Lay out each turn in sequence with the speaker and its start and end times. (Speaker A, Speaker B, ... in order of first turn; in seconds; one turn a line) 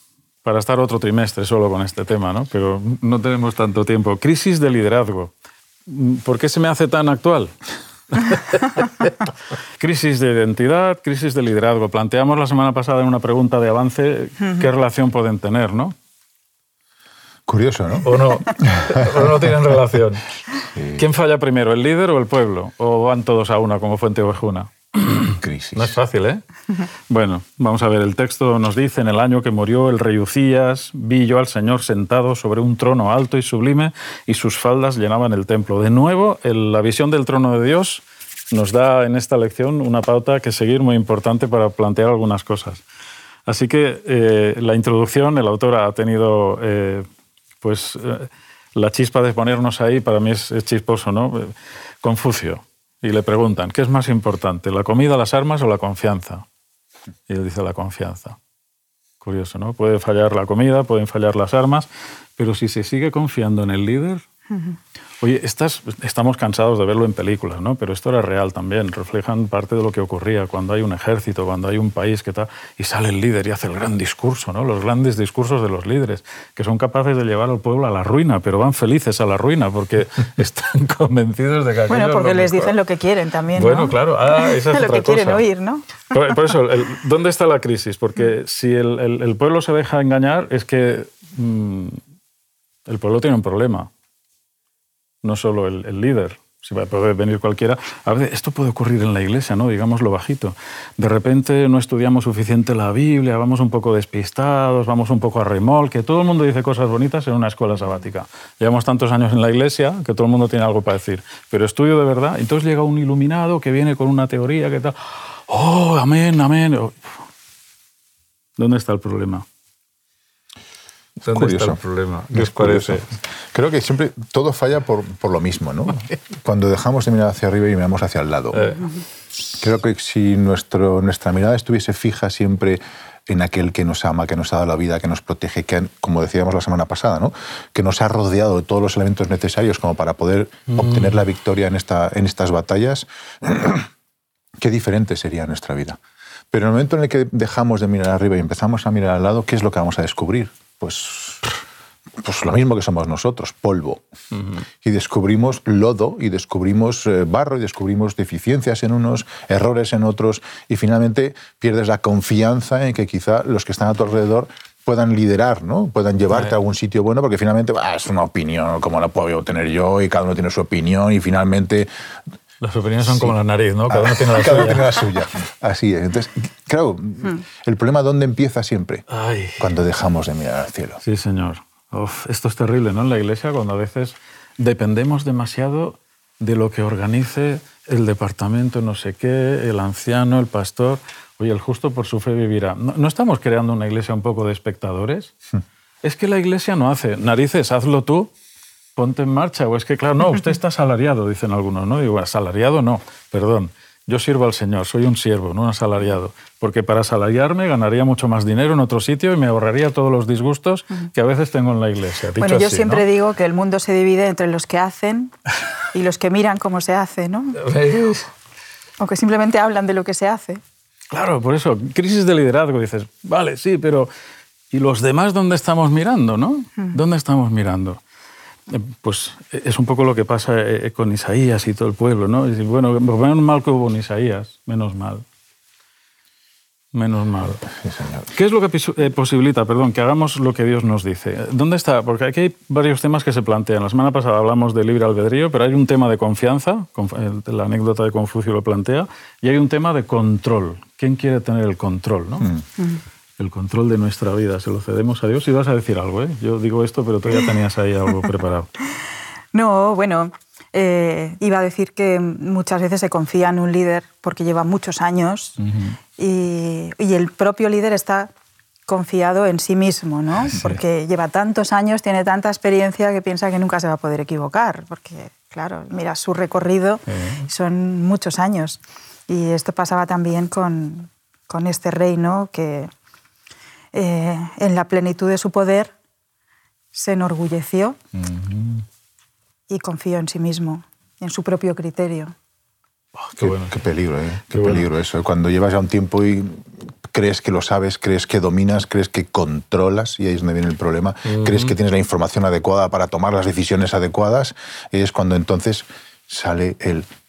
Speaker A: 0.4-5.3
Speaker A: 5.8-7.5
Speaker A: 8.1-15.9
Speaker B: 17.5-19.3
Speaker A: 18.0-20.4
Speaker B: 20.7-21.0
Speaker A: 20.9-26.4
Speaker B: 25.2-26.0
Speaker A: 27.1-42.8
Speaker A: 43.5-47.1
Speaker A: 47.6-56.4
Speaker A: 57.3-58.4
Speaker A: 59.2-64.2
Speaker A: 65.2-82.8
Speaker C: 81.9-86.3
Speaker A: 83.5-85.4
Speaker A: 86.1-92.0
Speaker A: 92.8-93.9
Speaker A: 95.2-117.2
Speaker A: 118.6-119.5
Speaker A: 121.2-123.1
Speaker B: 121.3-128.7
Speaker A: 128.5-128.8
Speaker B: 129.4-143.9
Speaker A: 140.7-141.1
Speaker B: 144.6-146.0
Speaker B: 146.5-151.5
Speaker B: 152.2-154.0
Speaker A: 154.3-154.6
Speaker B: 154.8-171.9
Speaker A: 172.6-175.1
Speaker B: 173.0-173.3
Speaker B: 173.9-179.0
Speaker A: 179.1-179.7
Speaker B: 179.6-181.0
Speaker A: 181.0-195.3
Speaker A: 196.0-198.3
Speaker A: 198.9-213.1
Speaker C: 212.4-215.3
Speaker C: 215.9-217.6
Speaker A: 217.6-218.3
Speaker C: 219.0-220.6
Speaker A: 221.1-224.1
Speaker A: 224.7-228.0
Speaker A: 228.7-235.2
Speaker A: 236.9-237.7
Speaker B: 237.7-238.3
Speaker A: 238.3-252.5
Speaker A: 253.4-258.7
Speaker C: 259.5-265.6
Speaker A: 265.6-266.0
Speaker C: 266.2-268.3
Speaker C: 268.9-282.9
Speaker A: 270.4-270.8
Speaker A: 277.1-277.4
Speaker C: 283.9-285.9
Speaker C: 286.9-288.0
Speaker A: 288.1-288.8
Speaker C: 289.7-292.3
Speaker A: 293.2-293.7
Speaker B: 293.4-307.1
Speaker A: 294.5-294.9
Speaker A: 301.3-301.7